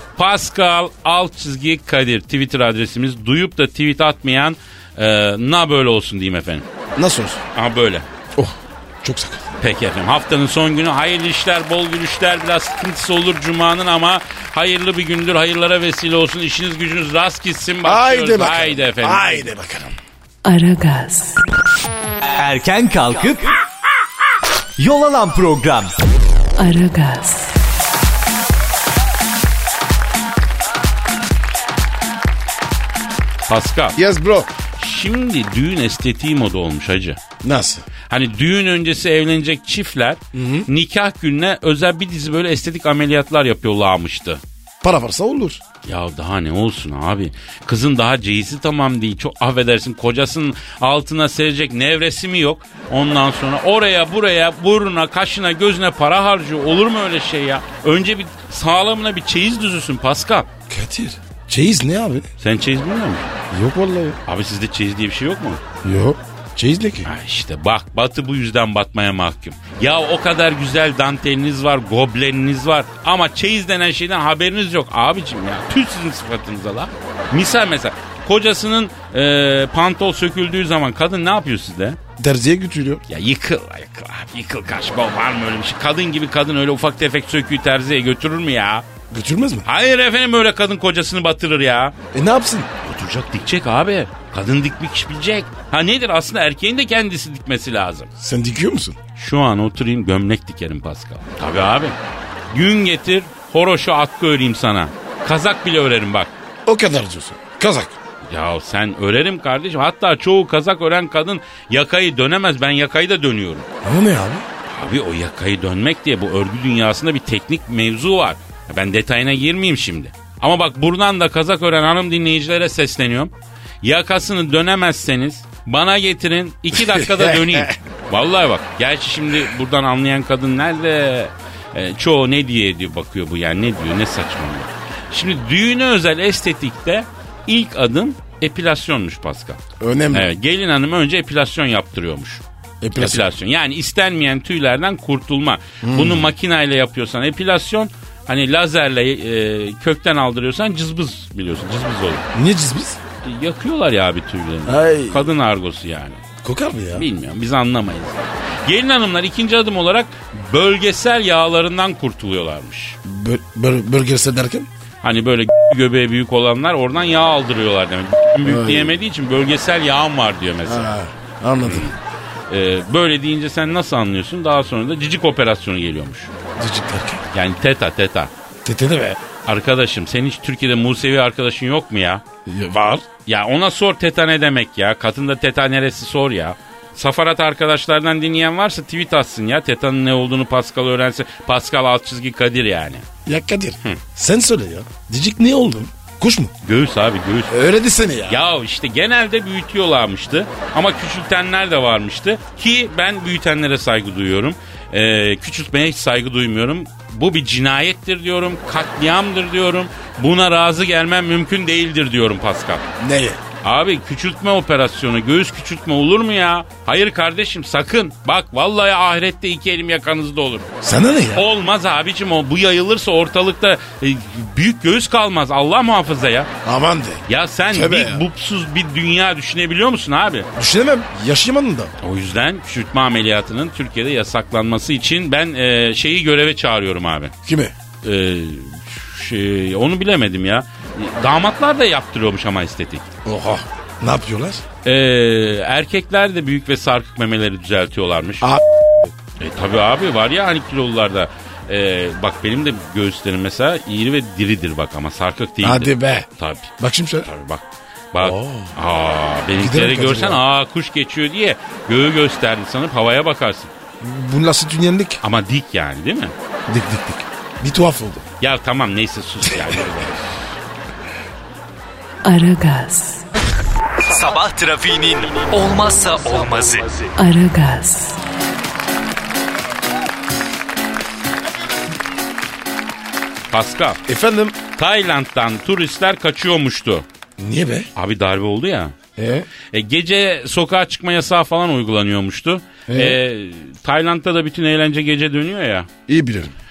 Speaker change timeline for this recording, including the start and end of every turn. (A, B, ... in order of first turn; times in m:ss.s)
0:00.2-0:06.6 A
0:06.9-0:07.4 B
0:07.5-0:08.0 A
0:08.3-0:09.5 B
0:09.6-0:19.5 A
0:17.8-0:19.9 B
0:20.4-0:21.4 C
0:22.4-0:23.5 D
0:24.8-0:25.9 D
0:26.6-0:27.5 C
0:33.5-0:34.0 A
0:34.0-0:34.5 B
0:34.8-0:37.2 A
0:37.4-0:37.8 B
0:38.1-0:44.4 A
0:40.3-0:40.7 B
0:44.8-0:45.6 B
0:45.8-1:00.5 A
1:00.7-1:02.3 B
1:02.4-1:03.3 A
1:03.5-1:04.2 B
1:04.2-1:05.6 A
1:05.8-1:07.1 B
1:07.0-1:22.0 A
1:22.2-1:23.0 B
1:23.1-1:28.8 A
1:29.1-1:29.7 B
1:29.6-1:31.9 A
1:32.1-1:32.7 B
1:32.8-1:38.1 A
1:38.2-1:39.0 B
1:39.2-1:42.0 A
1:42.5-1:46.3 A
1:46.6-1:47.9 B
1:48.3-1:53.7 A
1:53.8-1:54.4 B
1:54.7-2:19.6 A
2:06.7-2:07.8 B
2:19.8-2:20.3 B
2:20.1-2:22.4 A
2:22.8-2:23.3 B
2:23.0-2:32.2 A
2:25.8-2:26.3 B
2:32.3-2:33.0 B
2:33.2-2:36.2 A
2:34.6-2:35.3 B
2:36.4-2:37.1 B
2:36.9-2:43.0 A
2:43.0-2:44.7 B
2:45.0-2:50.9 A
2:48.4-2:49.0 B
2:50.6-2:51.9 B
2:51.6-2:51.9 A
2:52.5-2:56.3 A
2:56.6-2:57.2 B
2:57.3-2:58.3 A
2:58.6-2:59.2 B
2:59.4-3:02.2 A
3:02.4-3:03.0 B
3:03.2-3:13.1 A
3:13.2-3:16.5 B
3:16.6-3:17.6 A
3:17.5-3:18.4 B
3:18.3-3:32.8 A
3:33.0-3:33.4 B
3:33.6-3:40.7 A
3:40.8-3:41.4 B
3:41.3-3:46.5 A
3:46.6-3:48.2 B
3:47.3-3:50.5 A
3:50.6-3:51.9 B
3:52.0-3:57.3 A
3:57.4-3:57.7 B
3:58.0-4:03.1 A
4:03.2-4:04.6 B
4:04.8-4:08.5 A
4:08.4-4:09.1 B
4:09.4-4:16.7 A
4:15.6-4:16.2 B
4:16.8-4:17.3 B
4:17.2-4:23.7 A
4:18.2-4:18.7 B
4:19.6-4:20.4 B
4:24.0-4:25.2 B
4:25.2-4:26.3 A
4:26.7-4:28.2 B
4:28.4-4:30.3 A
4:32.2-4:33.2 C
4:34.0-4:37.0 D
4:37.2-4:38.2 C
4:43.5-4:44.0 A
4:44.0-4:44.6 B
4:44.8-4:47.0 A
4:47.4-4:47.9 B
4:47.9-4:48.9 A
4:49.2-4:49.5 B
4:49.7-4:55.9 A
4:52.9-4:53.2 B
4:56.1-4:56.5 B